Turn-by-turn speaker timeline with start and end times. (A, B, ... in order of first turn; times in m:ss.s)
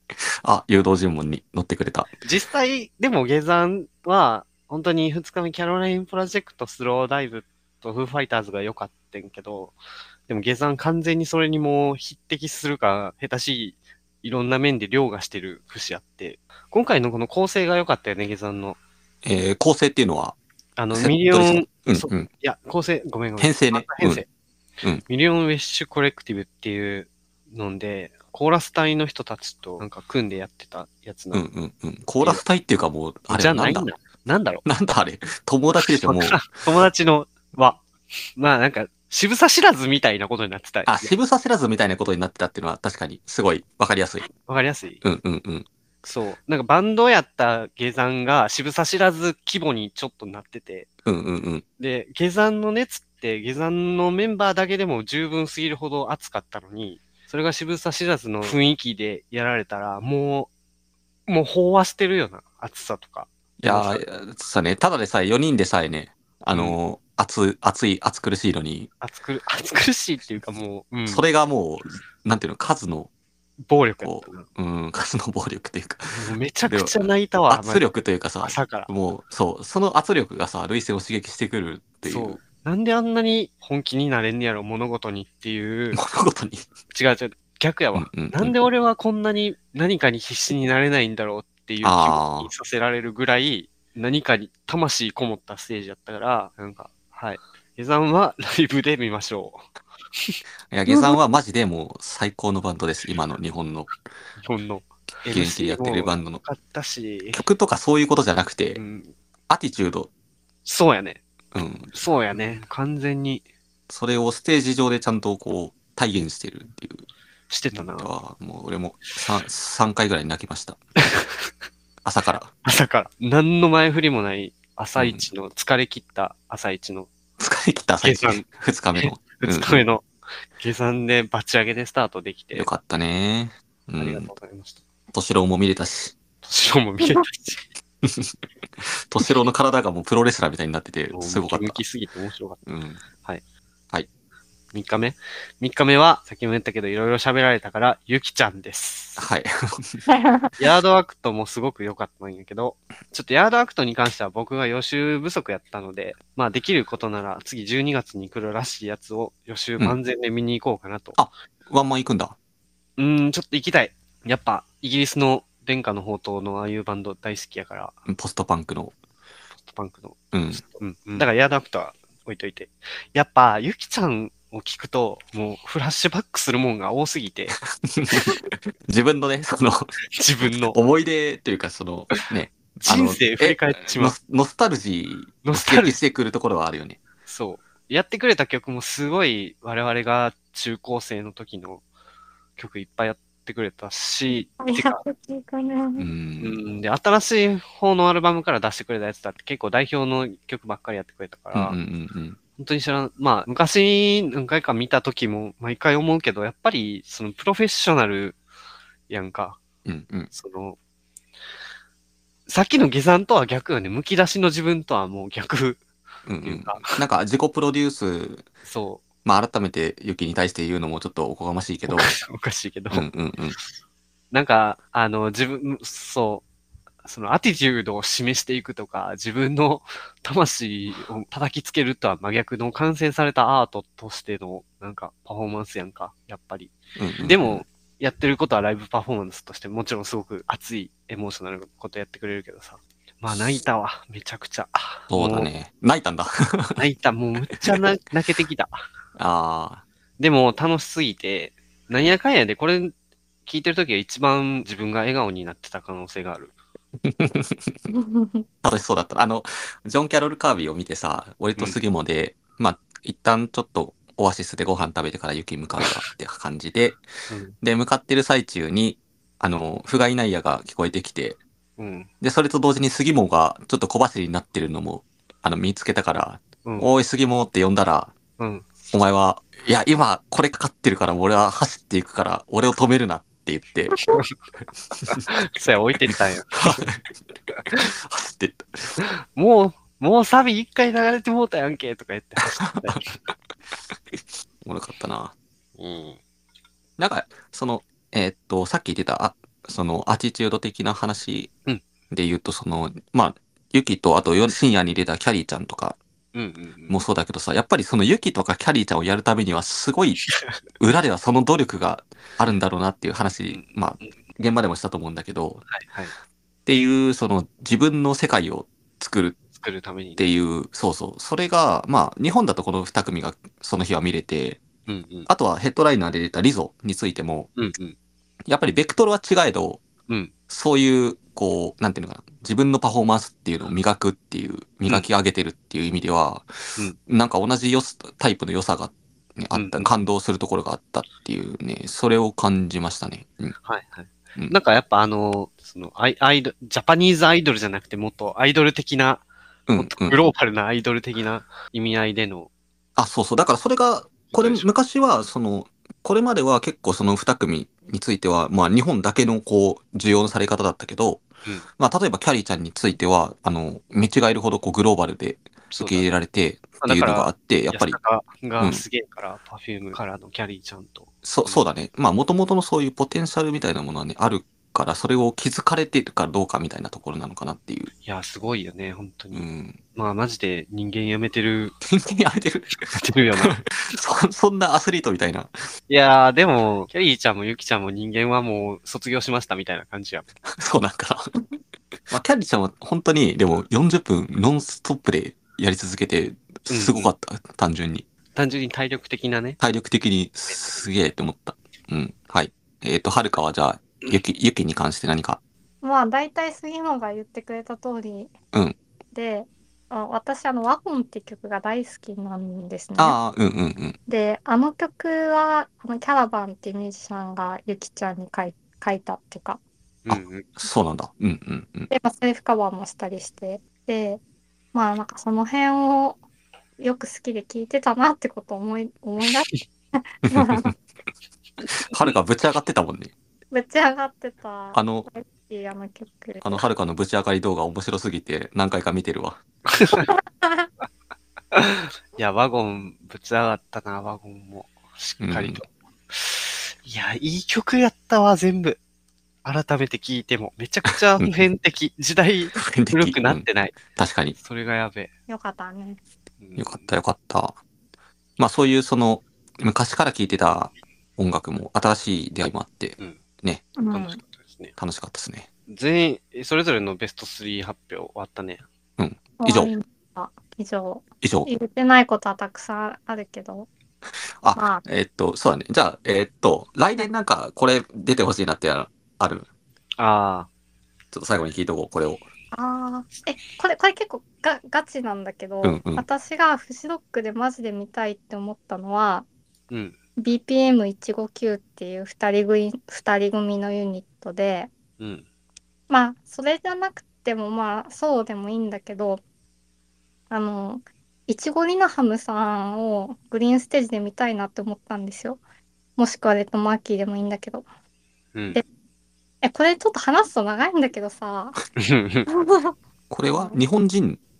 0:00.3-0:02.1 A
0:02.2-0:09.8 B
0:10.3-0:18.8 B
0:19.2-0:20.4 A
0:20.8-0:24.3 B
0:20.9-0:22.3 A
0:23.4-0:24.2 A
0:25.1-0:31.4 B
0:31.3-0:33.9 A
0:33.3-0:34.6 B
0:34.6-0:36.5 A
0:35.8-0:37.8 B
0:38.4-0:41.1 B
0:40.8-0:44.3 A
0:44.4-0:45.0 B
0:45.0-0:45.7 A
0:46.0-0:50.9 B
0:51.0-0:51.6 A
0:51.8-1:00.5 B
1:01.3-1:04.0 B
1:03.6-1:08.9 A
1:06.5-1:06.8 B
1:09.0-1:11.2 B
1:11.1-1:13.1 A
1:13.6-1:14.4 B
1:14.0-1:22.4 A
1:16.1-1:17.8 B
1:18.4-1:18.9 B
1:22.0-1:26.0 B
1:25.9-1:26.7 A
1:26.9-1:39.7 B
1:27.9-1:28.5 A
1:31.8-1:32.5 A
1:40.7-1:43.9 A
1:44.4-1:47.4 B
1:45.3-1:46.4 A
1:47.3-1:48.8 A
1:48.7-1:49.1 B
1:49.5-1:50.1 A
1:50.6-1:51.2 B
1:51.5-1:51.9 A
1:51.9-1:53.4 B
1:53.9-1:57.0 A
1:57.5-1:58.1 B
1:57.7-2:00.8 A
2:01.0-2:01.5 B
2:02.0-2:02.5 A
2:02.6-2:07.1 B
2:05.0-2:05.2 A
2:07.4-2:09.8 A
2:08.0-2:08.4 B
2:09.0-2:12.7 B
2:12.5-2:14.3 A
2:14.0-2:14.8 B
2:15.1-2:16.1 A
2:16.4-2:17.7 B
2:18.0-2:21.8 A
2:21.1-2:22.6 B
2:22.6-2:23.0 A
2:24.7-2:29.3 B
2:29.2-2:30.0 A
2:30.1-2:30.5 C
2:30.6-2:41.2 B
2:41.1-2:42.4 A
2:43.0-2:47.9 B
2:48.1-2:48.9 A
2:49.6-2:57.6 B
2:50.3-2:50.6 A
2:57.8-2:59.9 A
3:00.1-3:00.8 B
3:00.7-3:07.0 A
3:02.8-3:04.1 B
3:05.4-3:06.0 B
3:07.3-3:11.8 B
3:12.6-3:15.0 B
3:14.6-3:16.1 C
3:16.0-3:16.6 A
3:16.4-3:21.8 B
3:21.5-3:22.4 A
3:22.6-3:28.4 B
3:29.1-3:29.6 B
3:29.8-3:30.3 A
3:30.3-3:30.8 B
3:32.5-3:35.8 B
3:36.2-3:38.4 A
3:36.4-3:37.0 B
3:38.6-3:39.0 B
3:39.2-3:42.1 A
3:41.9-3:43.1 B
3:42.9-3:43.6 A
3:44.3-3:46.4 B
3:47.0-4:05.5 B
3:57.0-3:57.6 A
4:05.1-4:06.8 A
4:06.8-4:08.8 B
4:07.5-4:07.8 A
4:09.2-4:09.8 A
4:10.2-4:12.9 B
4:13.4-4:16.5 B
4:17.0-4:17.8 A
4:17.9-4:18.4 C
4:18.6-4:27.0 A
4:27.3-4:27.6 B
4:27.6-4:31.4 A
4:31.8-4:32.1 B
4:32.2-4:38.1 A
4:38.4-4:38.7 B
4:38.9-4:44.0 A
4:45.1-4:46.8 B
4:46.5-4:47.0 A
4:47.6-4:47.9 B
4:47.7-4:49.0 A
4:49.0-4:53.2 B
4:52.6-4:53.0 A
4:54.1-4:55.3 A
4:55.8-4:56.2 B
4:57.0-5:01.5 A
5:02.1-5:06.0 A
5:06.3-5:07.0 B
5:06.9-5:10.2 A
5:10.8-5:15.6 A
5:13.5-5:14.1 B
5:15.7-5:16.1 B
5:16.6-5:19.4 A
5:19.5-5:20.2 B
5:20.2-5:24.6 A
5:24.9-5:25.3 B
5:25.3-5:27.5 A
5:27.6-5:28.0 B
5:28.4-5:29.8 A
5:30.5-5:43.5 A
5:39.5-5:39.8 B
5:43.6-5:49.2 B
5:49.7-5:50.2 A
5:49.7-5:52.5 B
5:53.0-6:01.2 A
5:54.3-5:54.7 B
6:01.8-6:08.0 A
6:05.7-6:06.1 B
6:06.8-6:11.6 B
6:11.2-6:17.9 A
6:18.0-6:21.7 B
6:19.3-6:19.8 A
6:21.8-6:25.5 A
6:22.9-6:23.6 B
6:25.9-6:30.3 B
6:30.5-6:31.3 A
6:32.1-6:38.0 A
6:36.7-6:37.1 B
6:38.3-6:39.6 B
6:39.6-6:45.4 A
6:40.5-6:40.7 B
6:45.8-6:48.3 C
6:49.1-6:53.2 C
6:53.0-6:54.0 A
6:54.1-6:59.6 C
7:00.0-7:00.6 B
7:00.1-7:01.9 A
7:01.9-7:04.2 C
7:04.7-7:06.2 C
7:06.8-7:10.7 C
7:10.3-7:10.7 A
7:11.9-7:13.1 A
7:13.5-7:16.6 C
7:14.7-7:15.0 A
7:16.4-7:19.4 A
7:19.7-7:20.1 B
7:20.1-7:20.7 C
7:21.5-7:28.8 B
7:25.2-7:25.6 A
7:29.4-7:33.8 B
7:32.6-7:34.4 A
7:34.4-7:35.1 B
7:35.3-7:36.0 C
7:36.4-7:36.9 B
7:36.6-7:37.6 A
7:38.4-7:43.6 A
7:43.8-7:44.2 C
7:43.9-7:44.7 B
7:44.8-7:45.5 A
7:45.7-7:48.6 B
7:49.0-7:49.7 A
7:49.4-7:53.7 C
7:51.2-7:51.5 A
7:54.4-7:59.4 A
7:54.6-7:54.8 C
8:00.0-8:00.5 B
8:01.1-8:02.2 A
8:02.5-8:09.3 C
8:05.6-8:06.0 A
8:09.7-8:10.0 B
8:10.2-8:14.7 C
8:15.0-8:15.2 B
8:15.9-8:19.2 C
8:20.3-8:25.4 C
8:26.0-8:27.6 C
8:28.3-8:28.6 B
8:29.4-8:31.6 C
8:31.8-8:32.3 B
8:32.3-8:32.7 C
8:33.1-8:34.2 A